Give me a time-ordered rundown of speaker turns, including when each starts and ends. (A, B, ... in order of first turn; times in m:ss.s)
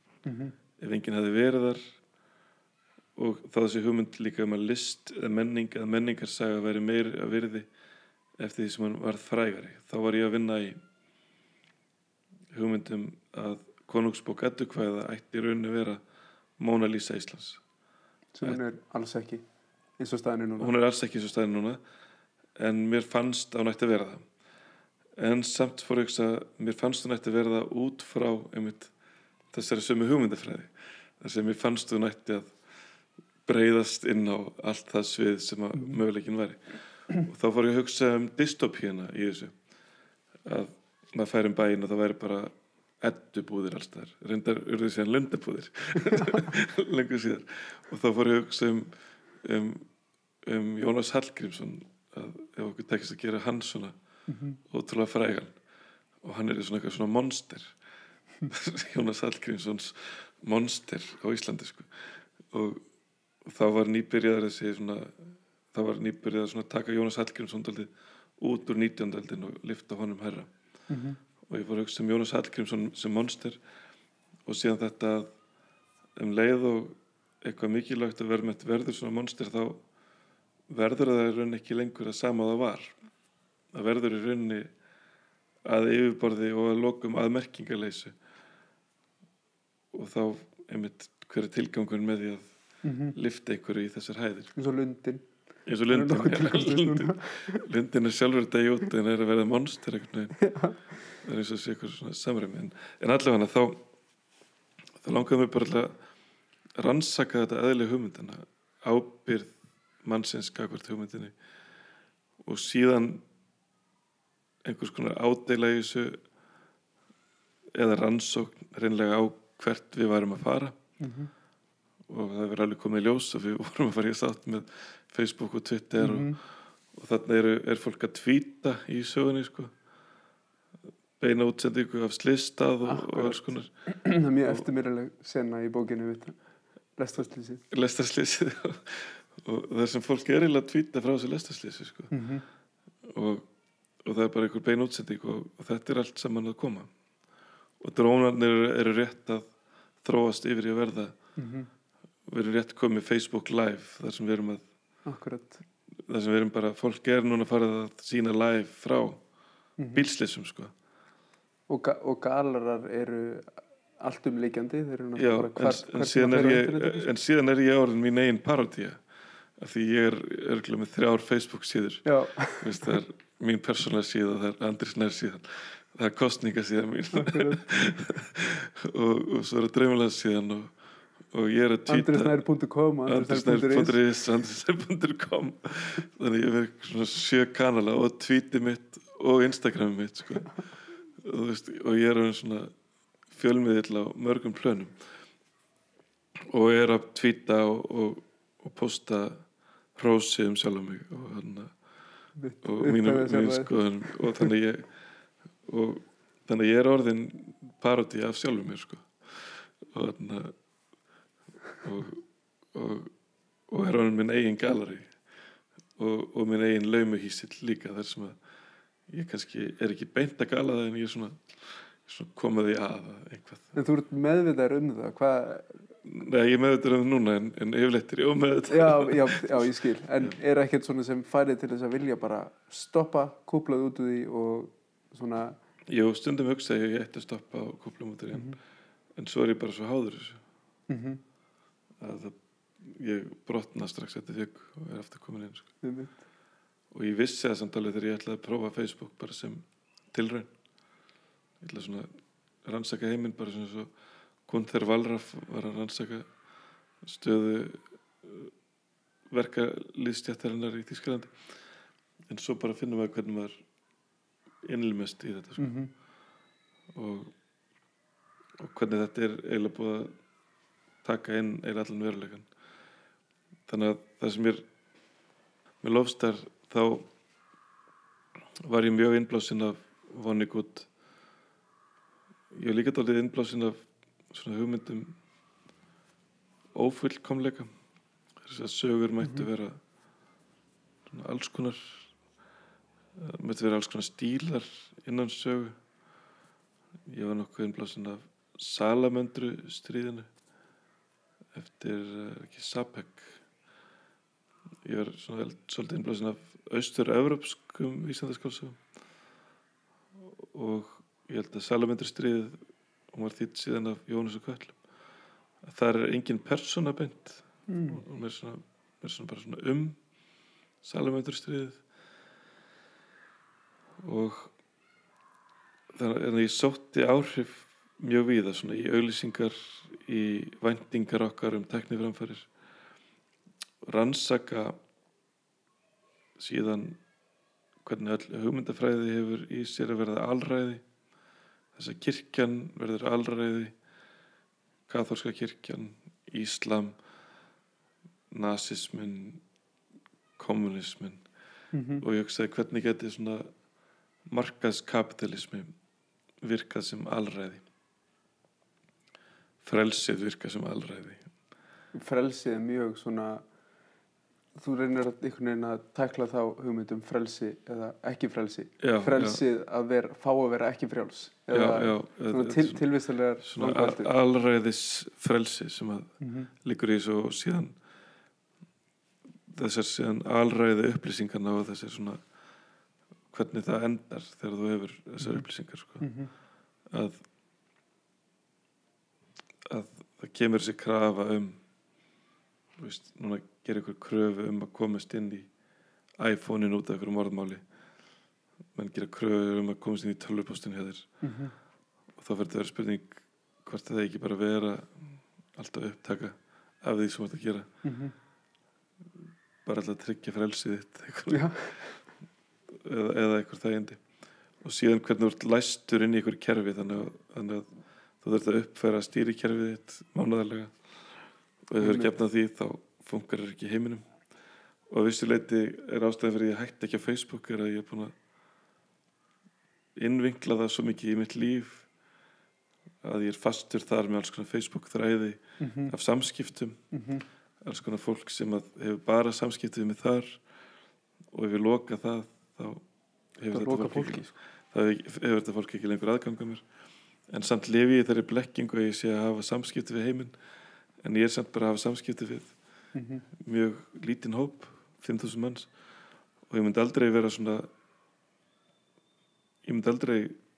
0:00.2-0:00.5 A
0:00.8-0:01.9 B
0:03.2-0:07.7 B
0:08.4-0:10.8 B
0:12.5-0:16.0 B
0:16.6-0:17.6 B
0:18.3-0:19.4 A
0:20.0-0:20.7 A
0:20.6-0:21.8 B
0:22.6-0:24.2 B
0:25.2-0:28.9 B
0:29.5-0:32.5 B
0:33.4-0:39.5 B
0:40.4-0:49.9 B
0:50.4-0:54.0 B
0:54.3-0:54.6 A
0:54.6-0:55.6 B
0:56.2-0:57.7 B
0:58.5-1:02.8 B
1:03.4-1:10.5 B
1:10.9-1:11.2 A
1:11.4-1:13.6 B
1:14.4-1:15.3 B
1:16.1-1:19.8 B
1:20.7-1:23.0 B
1:23.7-1:24.7 B
1:25.6-1:28.1 B
1:29.9-1:32.4 B
1:32.8-1:33.2 A
1:33.1-1:34.5 B
1:34.6-1:35.2 A
1:35.6-1:40.4 B
1:35.9-1:37.6 A
1:40.4-1:40.8 A
1:41.2-1:43.8 B
1:45.0-1:45.9 B
1:46.8-1:51.3 B
1:52.4-1:53.2 B
1:54.6-1:56.2 B
1:57.7-2:00.8 B
2:01.0-2:01.3 A
2:02.1-2:06.4 B
2:06.0-2:06.4 A
2:06.9-2:09.7 B
2:11.2-2:13.7 B
2:12.8-2:16.4 A
2:17.0-2:17.6 A
2:17.7-2:22.1 B
2:22.1-2:22.4 A
2:23.0-2:23.4 B
2:24.0-2:26.9 B
2:27.8-2:29.5 B
2:30.0-2:31.1 B
2:31.4-2:31.7 A
2:32.2-2:34.6 B
2:35.0-2:35.6 A
2:36.0-2:39.2 B
2:39.8-2:40.0 A
2:39.9-2:40.7 B
2:41.7-2:47.1 A
2:45.2-2:49.0 B
2:49.6-3:00.7 B
2:52.0-2:52.9 A
2:57.1-2:57.6 A
3:01.3-3:02.4 B
3:01.9-3:04.0 A
3:03.0-3:10.6 B
3:11.1-3:12.7 B
3:13.3-3:14.9 B
3:16.4-3:19.4 B
3:19.9-3:21.7 B
3:22.4-3:24.5 A
3:22.6-3:24.9 B
3:25.6-3:30.5 B
3:31.8-3:33.1 B
3:33.7-3:35.1 B
3:36.0-3:38.4 B
3:39.1-3:43.7 B
3:43.7-3:45.8 A
3:46.0-3:49.7 B
3:48.7-3:55.6 A
3:55.9-3:58.6 B
3:59.1-4:00.4 B
4:00.9-4:01.2 A
4:02.0-4:05.7 B
4:05.8-4:06.2 A
4:06.9-4:10.5 B
4:11.6-4:12.1 B
4:12.6-4:13.9 B
4:14.5-4:16.3 B
4:17.0-4:18.5 B
4:19.3-4:21.3 B
4:22.3-4:23.6 B
4:24.6-4:25.7 B
4:25.6-4:25.9 A
4:26.9-4:27.3 B
4:28.6-4:30.1 B
4:31.0-4:32.5 B
4:33.7-4:34.6 B
4:35.8-4:37.1 B
4:38.6-4:40.9 B
4:42.5-4:43.8 B
4:44.3-4:45.2 B
4:46.7-4:47.7 B
4:48.4-4:49.8 B
4:49.2-4:49.5 A
4:51.1-4:52.1 B
4:53.1-4:55.8 B
4:57.1-5:00.3 B
5:01.5-5:03.4 B
5:04.8-5:08.8 B
5:10.2-5:12.6 B
5:13.1-5:14.8 B
5:15.6-5:20.0 B
5:17.7-5:18.0 A
5:20.8-5:21.8 B
5:24.0-5:24.5 B
5:25.9-5:32.5 B
5:33.8-5:34.8 B
5:36.4-5:37.0 B
5:37.8-5:40.8 B
5:41.7-5:43.7 B
5:44.9-5:47.0 B
5:48.3-5:49.4 B
5:50.4-5:51.2 B
5:51.7-5:52.0 A
5:52.0-5:53.5 B
5:54.3-5:55.7 B
5:56.4-5:57.6 B
5:59.6-6:01.2 B
6:01.9-6:03.4 A
6:04.6-6:14.1 A
6:08.8-6:09.4 B
6:11.5-6:12.8 B
6:13.4-6:17.8 B
6:16.2-6:16.5 A
6:19.5-6:22.2 B
6:23.3-6:26.1 B
6:25.2-6:25.4 A
6:26.0-6:26.3 A
6:26.9-6:27.2 B
6:29.6-6:31.6 B
6:32.8-6:35.5 B
6:36.2-6:37.6 B
6:38.7-6:41.1 B
6:41.2-6:41.5 A
6:42.2-6:47.7 B
6:47.8-6:48.2 A
6:49.6-6:51.5 B
6:51.3-6:51.9 A
6:52.7-6:54.0 B
6:54.6-6:57.7 B
6:58.2-7:00.7 B
7:01.7-7:04.0 B
7:01.8-7:02.1 A
7:04.9-7:08.1 B
7:10.0-7:11.9 B
7:13.0-7:16.8 B
7:15.6-7:15.9 A
7:16.9-7:17.2 A
7:17.6-7:20.4 B
7:21.3-7:22.8 B
7:23.4-7:26.6 B
7:23.5-7:24.3 A
7:27.3-7:30.3 B
7:31.0-7:32.5 B
7:32.9-7:33.2 A
7:33.3-7:35.7 B
7:36.5-7:37.7 B
7:39.6-7:40.4 B